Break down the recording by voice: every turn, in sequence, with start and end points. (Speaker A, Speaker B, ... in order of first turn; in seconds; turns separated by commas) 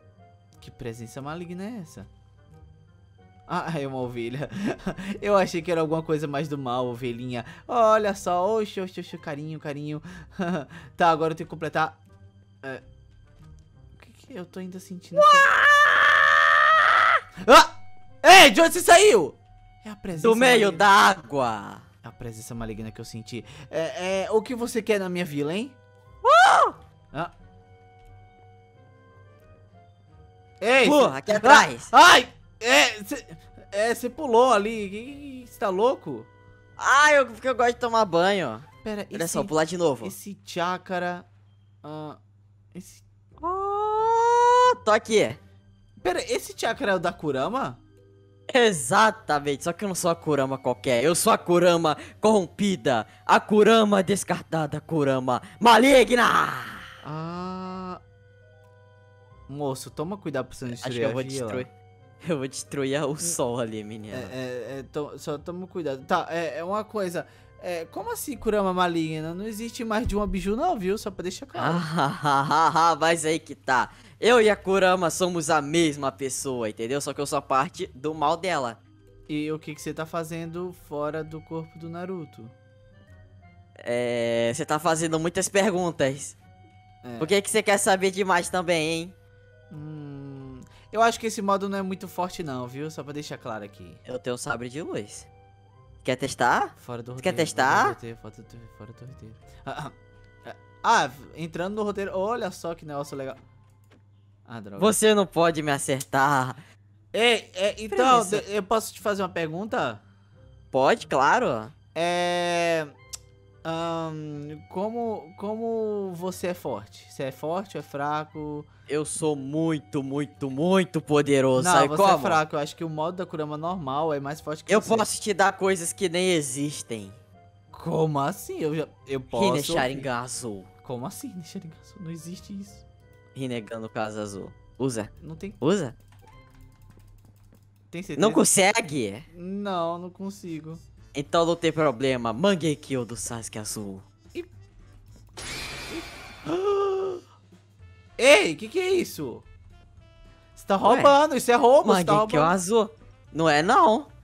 Speaker A: 0.6-2.1, Speaker A: 3.5-12.0, Speaker A: 14.0-15.5, Speaker B: 15.1-17.2, Speaker A: 17.4-20.9, Speaker B: 20.1-21.9, Speaker A: 22.0-25.8, Speaker B: 26.2-26.8, Speaker A: 30.6-36.3, Speaker B: 30.8-31.9, Speaker B: 36.8-40.1, Speaker A: 38.8-41.3, Speaker A: 41.8-42.2, Speaker A: 42.8-43.0, Speaker B: 43.4-45.4, Speaker A: 46.0-47.8, Speaker B: 48.5-56.8, Speaker A: 57.0-58.0, Speaker A: 59.5-61.7, Speaker B: 60.7-61.7, Speaker B: 62.2-64.3, Speaker A: 64.1-71.8, Speaker B: 71.5-78.8, Speaker A: 79.3-82.5, Speaker B: 83.8-86.3, Speaker A: 87.0-87.3, Speaker B: 87.2-89.1, Speaker A: 89.7-94.0, Speaker B: 94.0-95.3, Speaker B: 96.0-98.0, Speaker A: 96.8-99.9, Speaker A: 100.4-103.4, Speaker A: 104.4-104.9, Speaker B: 104.8-106.6, Speaker A: 107.1-110.0, Speaker B: 107.9-108.5, Speaker B: 110.7-111.7, Speaker A: 112.0-112.9, Speaker A: 113.6-118.7, Speaker B: 118.9-122.4, Speaker A: 121.6-125.1, Speaker B: 124.7-127.2, Speaker A: 127.7-130.1, Speaker B: 129.3-130.7, Speaker A: 130.8-132.8, Speaker B: 133.3-135.9, Speaker A: 135.2-135.6, Speaker A: 137.9-138.5, Speaker B: 138.2-139.3, Speaker A: 139.3-140.8, Speaker B: 141.1-144.0, Speaker A: 145.9-147.2, Speaker A: 148.2-149.5, Speaker A: 150.6-152.6, Speaker B: 150.8-151.2, Speaker B: 151.8-154.1